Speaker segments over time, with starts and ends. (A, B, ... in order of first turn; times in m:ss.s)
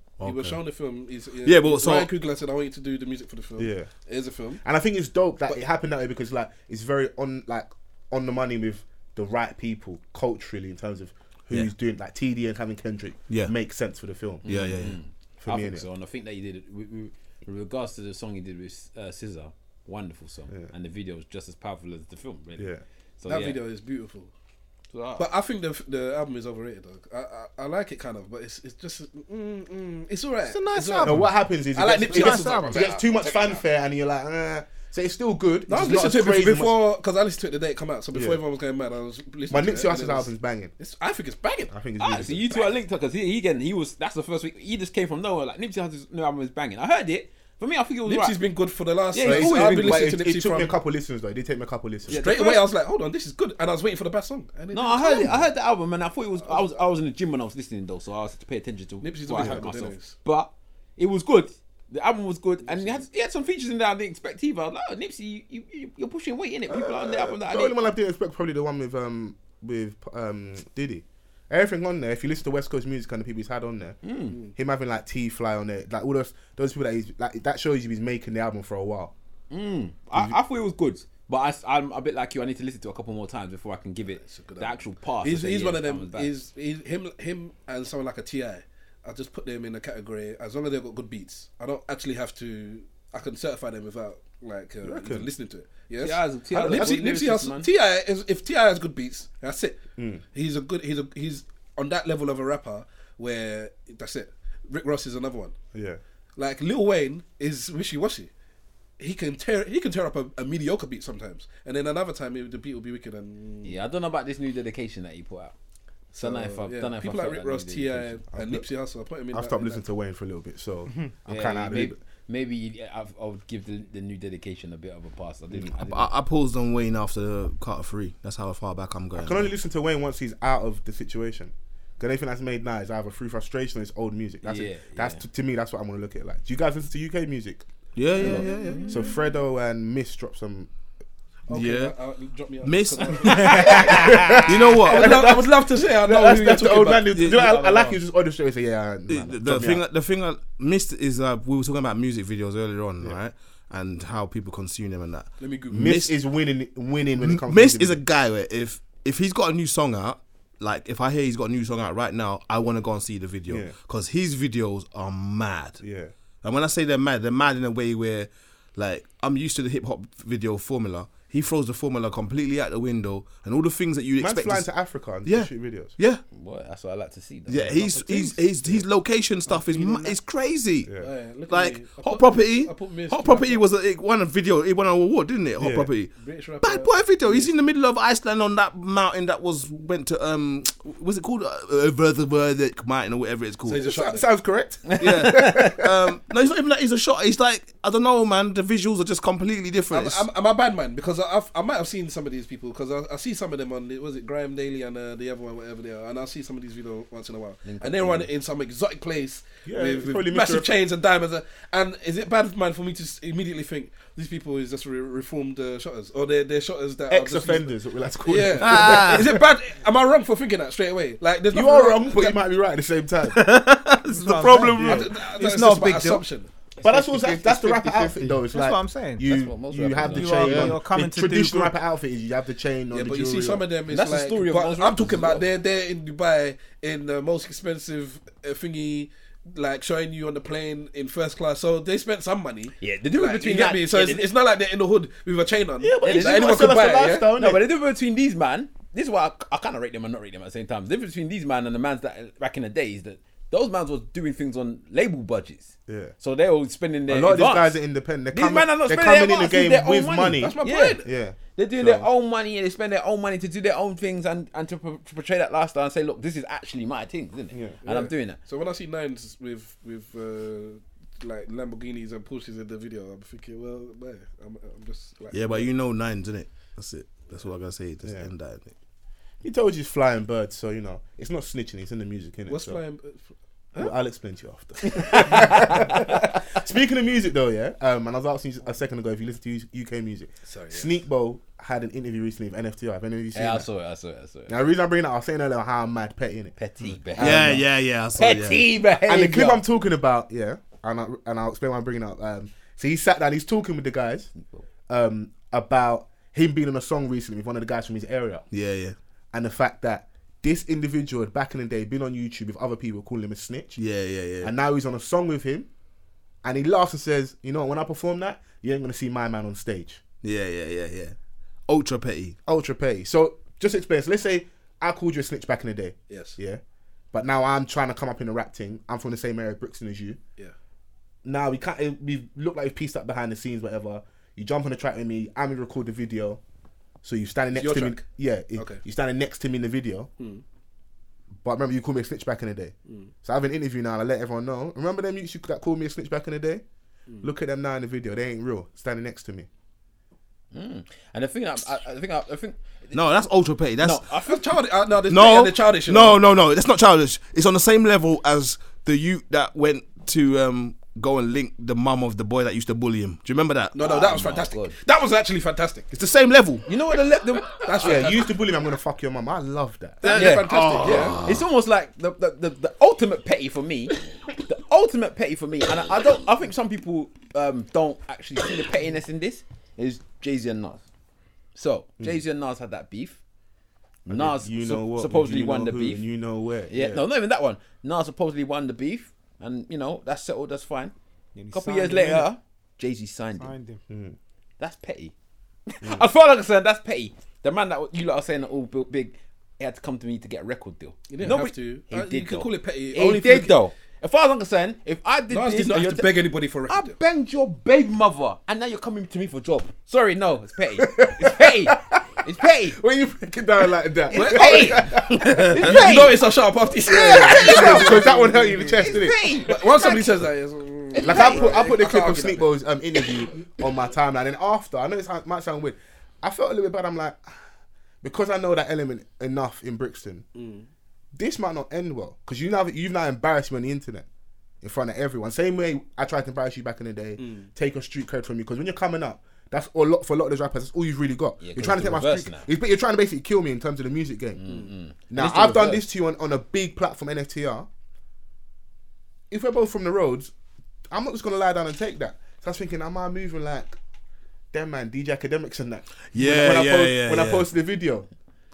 0:00.2-0:00.6 A
0:00.2-0:04.6 B
0:01.4-0:02.1 A
0:03.6-0:03.9 C
0:04.6-0:14.4 C
0:14.4-0:23.6 D
0:14.5-0:15.0 A
0:15.4-0:15.9 C
0:23.3-0:24.3 B
0:24.9-0:25.3 D
0:25.2-0:33.6 B
0:30.5-0:31.2 E
0:31.0-0:36.8 C
0:32.0-0:32.9 E
0:35.7-0:41.7 B
0:38.1-0:38.4 C
0:39.5-0:40.7 C
0:41.7-0:42.7 C
0:42.0-0:48.4 D
0:48.0-0:50.8 B
0:49.1-0:50.2 D
0:49.2-0:52.3 C
0:52.1-0:52.7 D
0:52.1-0:55.5 B
0:54.7-1:07.8 D
0:56.4-0:56.7 B
0:59.0-1:00.2 B
1:02.7-1:03.0 B
1:06.7-1:14.0 C
1:14.0-1:14.4 D
1:14.5-1:19.1 C
1:19.5-1:26.3 D
1:24.1-1:39.8 B
1:34.8-1:35.3 C
1:36.0-1:37.7 D
1:40.0-1:40.2 C
1:40.3-1:45.6 B
1:45.7-1:46.0 C
1:46.4-1:48.3 B
1:49.0-1:53.8 B
1:53.6-1:55.5 D
1:56.1-1:59.8 B
1:56.2-1:58.2 D
1:58.3-1:58.6 C
1:59.3-2:02.0 C
2:01.3-2:06.1 D
2:05.8-2:09.5 A
2:09.2-2:17.7 C
2:14.4-2:15.2 D
2:18.0-2:19.0 A
2:18.2-2:20.7 C
2:18.2-2:18.8 B
2:21.5-2:24.3 B
2:21.5-2:21.9 A
2:22.6-2:25.2 A
2:23.2-2:24.5 D
2:23.5-2:29.8 C
2:24.8-2:27.2 B
2:27.2-2:27.6 A
2:27.3-2:27.9 D
2:29.1-2:36.1 A
2:35.4-2:36.0 B
2:35.7-2:38.0 C
2:37.2-2:45.8 A
2:43.5-2:43.8 C
2:45.8-2:46.1 C
2:46.4-2:54.7 A
2:54.2-2:56.0 C
2:55.2-2:56.2 A
2:56.3-2:58.4 D
2:57.5-3:00.9 A
2:59.7-3:00.2 B
3:01.0-3:03.7 B
3:01.5-3:13.8 A
3:05.6-3:05.9 C
3:06.2-3:07.5 B
3:13.6-3:14.3 B
3:13.8-3:16.2 C
3:14.9-3:15.5 D
3:15.0-3:20.2 A
3:19.9-3:42.4 B
3:27.6-3:28.3 D
3:29.7-3:30.7 C
3:37.1-3:39.4 C
3:38.6-3:39.4 A
3:41.5-3:43.5 C
3:43.6-3:45.0 A
3:43.7-3:46.2 E
3:44.4-3:45.1 C
3:44.8-3:46.5 B
3:46.8-3:53.6 C
3:46.8-3:49.4 E
3:49.2-3:50.8 D
3:50.1-3:51.8 E
3:52.9-4:07.3 B
3:53.9-3:55.5 D
4:02.8-4:04.3 D
4:05.8-4:07.6 C
4:06.0-4:17.8 D
4:15.9-4:16.1 C
4:17.1-4:22.1 C
4:18.3-4:21.0 D
4:20.4-4:21.1 B
4:21.6-4:28.4 D
4:27.5-4:27.8 C
4:27.8-4:35.7 B
4:35.3-4:38.7 A
4:38.0-4:38.3 C
4:39.4-4:42.8 C
4:42.5-4:43.9 B
4:43.8-4:53.7 C
4:44.9-4:45.9 D
4:50.5-4:50.9 B
4:53.3-4:54.6 D
4:54.5-4:56.6 C
4:56.6-4:57.6 D
4:57.2-4:57.6 C
4:57.2-4:58.7 A
4:58.2-4:59.6 D
4:59.0-5:04.3 C
5:04.9-5:08.5 C
5:08.5-5:09.0 A
5:09.3-5:13.8 C
5:13.8-5:14.5 A
5:14.4-5:15.7 C
5:16.4-5:20.0 C
5:20.2-5:21.2 A
5:21.7-5:22.4 A
5:22.5-5:26.6 C
5:26.1-5:26.4 B
5:27.1-5:30.2 C
5:31.2-5:36.4 C
5:37.0-5:40.1 C
5:37.5-5:38.0 B
5:38.6-5:38.8 B
5:41.4-5:46.6 C
5:47.2-5:49.5 C
5:50.5-5:53.0 D
5:52.9-5:54.0 A
5:53.8-5:54.5 D
5:54.2-5:56.2 B
5:55.1-6:03.8 A
6:03.7-6:05.9 B
6:03.8-6:04.7 D
6:05.9-6:06.7 A
6:06.7-6:08.2 D
6:07.6-6:08.2 B
6:07.8-6:10.2 C
6:10.0-6:11.2 B
6:10.0-6:20.8 D
6:10.1-6:11.4 A
6:21.6-6:23.2 D
6:24.1-6:27.0 C
6:24.1-6:26.0 D
6:26.7-6:30.9 D
6:31.4-6:32.3 E
6:31.5-6:33.5 D
6:33.4-6:33.8 E
6:33.9-6:34.2 C
6:34.6-6:35.1 D
6:35.7-6:52.8 D
6:41.1-6:43.6 B
6:45.3-6:47.0 B
6:50.8-6:55.9 C
6:54.1-6:56.3 D
6:54.1-6:54.9 B
6:55.5-6:58.4 B
6:56.8-6:59.3 C
6:56.9-7:00.3 D
6:59.2-7:02.5 B
7:00.9-7:01.8 D
7:01.0-7:07.3 C
7:08.0-7:10.2 C
7:10.4-7:10.7 B
7:11.2-7:14.1 C
7:14.6-7:24.4 C
7:17.2-7:17.5 B
7:21.4-7:22.5 D
7:24.4-7:25.9 D
7:25.1-7:27.7 C
7:29.3-7:30.3 C
7:30.9-7:33.8 C
7:34.5-7:38.1 C
7:36.1-7:37.5 A